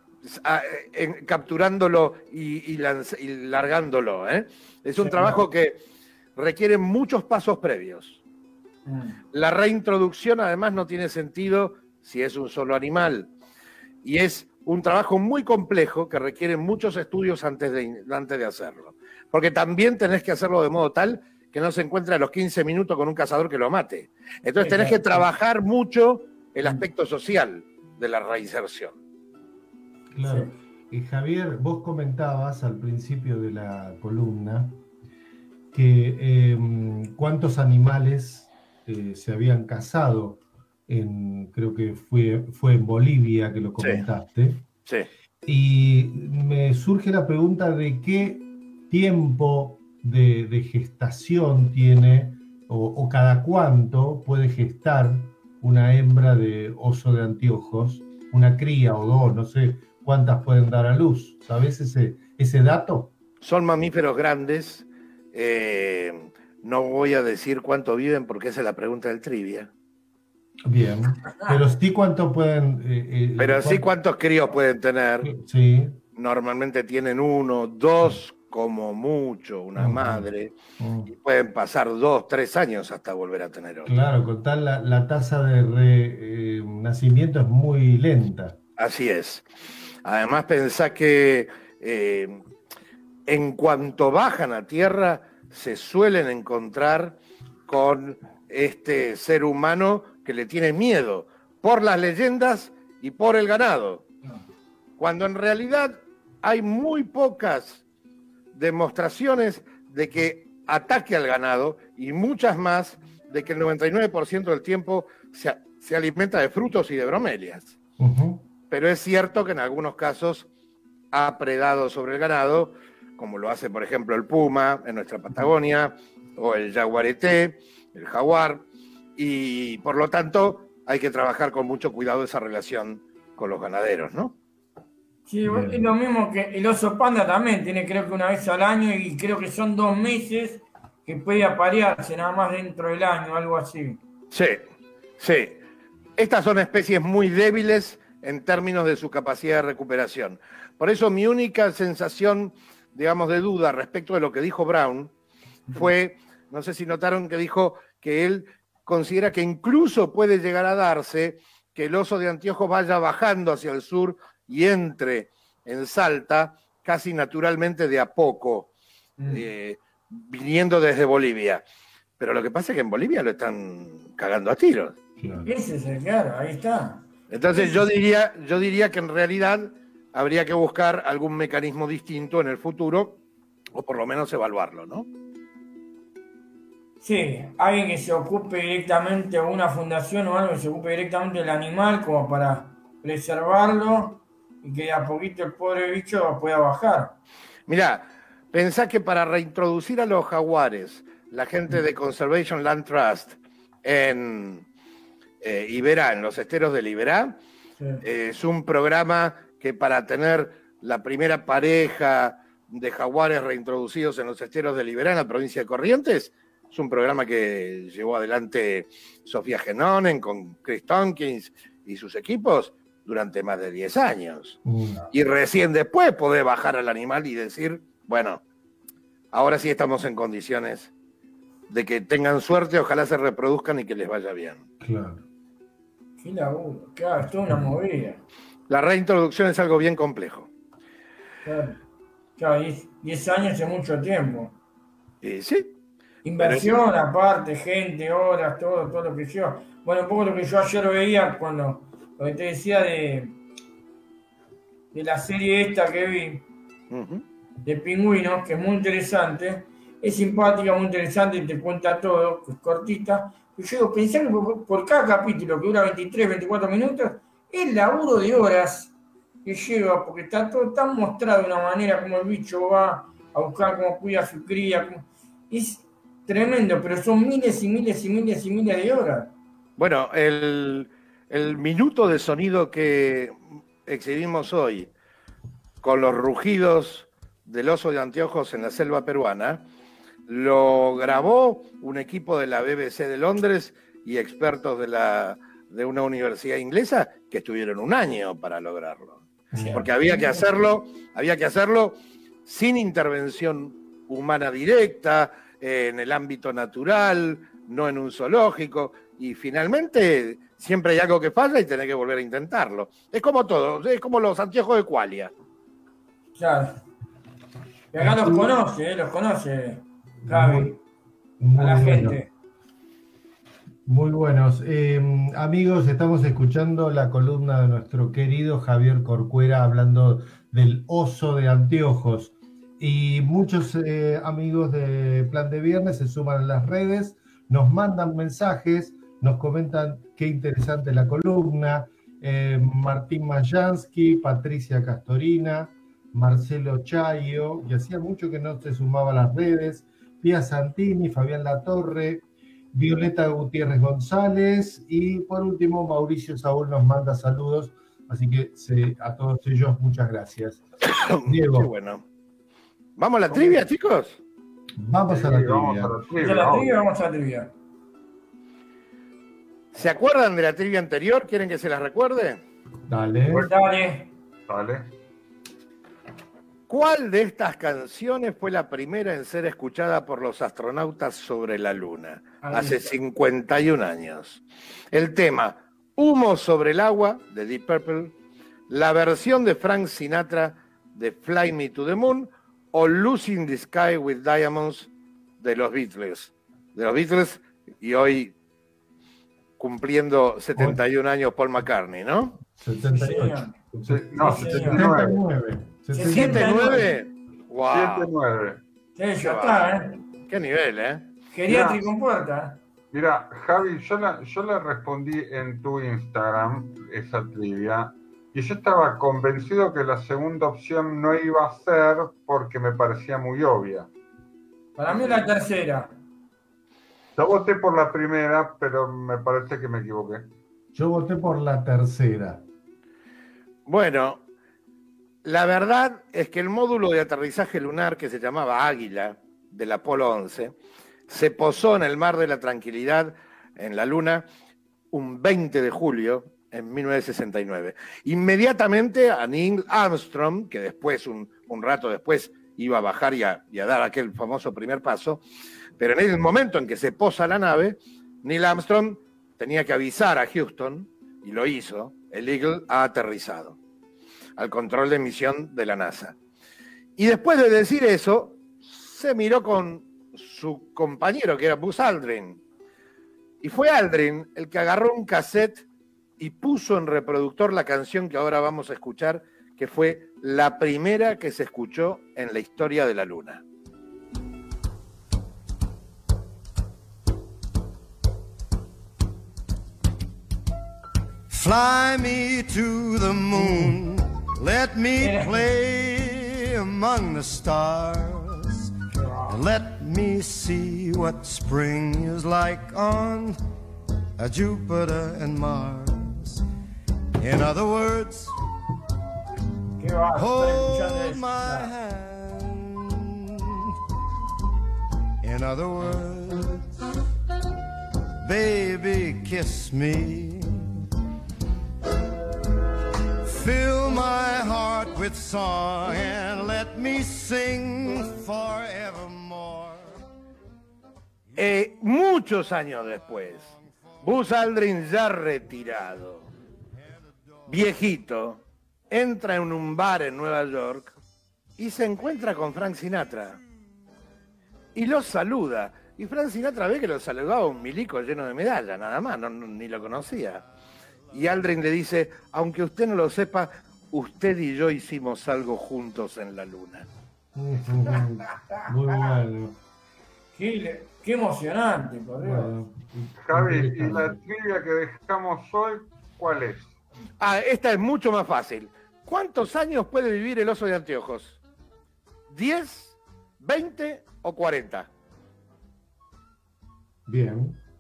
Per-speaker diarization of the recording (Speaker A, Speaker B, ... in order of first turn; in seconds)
Speaker A: 0.3-5.8, 6.4-8.2, 9.3-13.3, 14.0-28.9, 43.8-44.0, 63.4-69.7, 73.4-75.3, 76.2-80.5, 81.1-83.9, 88.8-89.5, 90.0-92.4, 93.3-104.1, 105.0-107.8, 108.5-117.8, 118.7-120.5, 121.1-134.4, 144.3-144.7, 145.2-145.6, 146.2-155.1, 155.7-168.7, 169.3-171.6, 172.2-175.0, 177.3-183.2, 183.7-185.1, 197.7-204.7, 205.4-207.4, 208.0-224.6, 225.1-228.4, 229.3-230.9, 231.7-234.6, 238.7-240.5, 245.2-245.7, 246.4-246.8, 256.9-257.3, 279.8-284.9, 285.8-289.6, 290.3-315.3, 360.9-362.1, 363.0-364.2, 369.7-372.4, 376.7-388.2, 388.7-398.4, 399.6-402.4, 406.0-408.1, 409.2-411.1, 433.7-434.2, 435.2-440.6, 441.1-444.3, 444.9-455.2, 455.8-463.6, 464.4-466.2, 467.0-472.4, 473.4-475.7, 476.2-483.4, 531.4-536.3, 537.5-540.9, 541.6-543.4, 544.8-550.5, 551.1-556.9, 567.2-571.4, 572.3-574.9
Speaker B: 5.0-5.4, 8.9-9.2, 24.6-25.2, 30.2-30.5, 71.3-71.7, 135.3-144.0, 169.2-169.5, 175.4-177.9, 187.0-197.2, 207.8-208.0, 236.2-238.2, 241.4-241.8, 242.4-244.6, 246.2-253.4, 254.9-256.5, 257.6-279.3, 299.7-300.4, 316.4-316.8, 317.9-320.8, 321.6-322.3, 366.1-367.5, 373.3-374.1, 382.4-382.9, 402.9-403.6, 404.1-405.0, 405.9-406.9, 409.0-410.0, 411.3-412.6, 424.8-426.0, 493.4-493.8, 495.0-495.4, 498.9-499.4, 509.8-511.7, 560.3-562.5
Speaker C: 30.1-34.8, 35.7-44.7, 45.4-63.1, 70.7-73.9, 75.2-76.0, 79.8-80.3, 80.8-81.1, 83.9-88.6, 118.0-118.5, 135.4-135.9, 175.2-175.5, 224.7-225.0, 234.8-235.2, 299.5-299.8, 318.0-318.5, 320.2-320.8, 321.4-322.2, 323.9-360.6, 361.2-361.7, 364.8-366.0, 372.9-373.5, 402.5-406.6, 430.7-432.4, 557.3-559.6, 562.2-564.2, 577.1-577.6
Speaker D: 363.3-363.6, 365.1-366.8, 374.5-374.9, 403.9-405.2, 407.7-408.6, 411.5-411.8, 412.9-423.9, 427.2-430.3, 563.2-566.8
Speaker E: 491.3-498.7, 499.3-503.4, 504.2-506.4, 507.2-508.3, 510.1-513.5, 515.2-516.7, 518.2-520.7, 523.2-529.9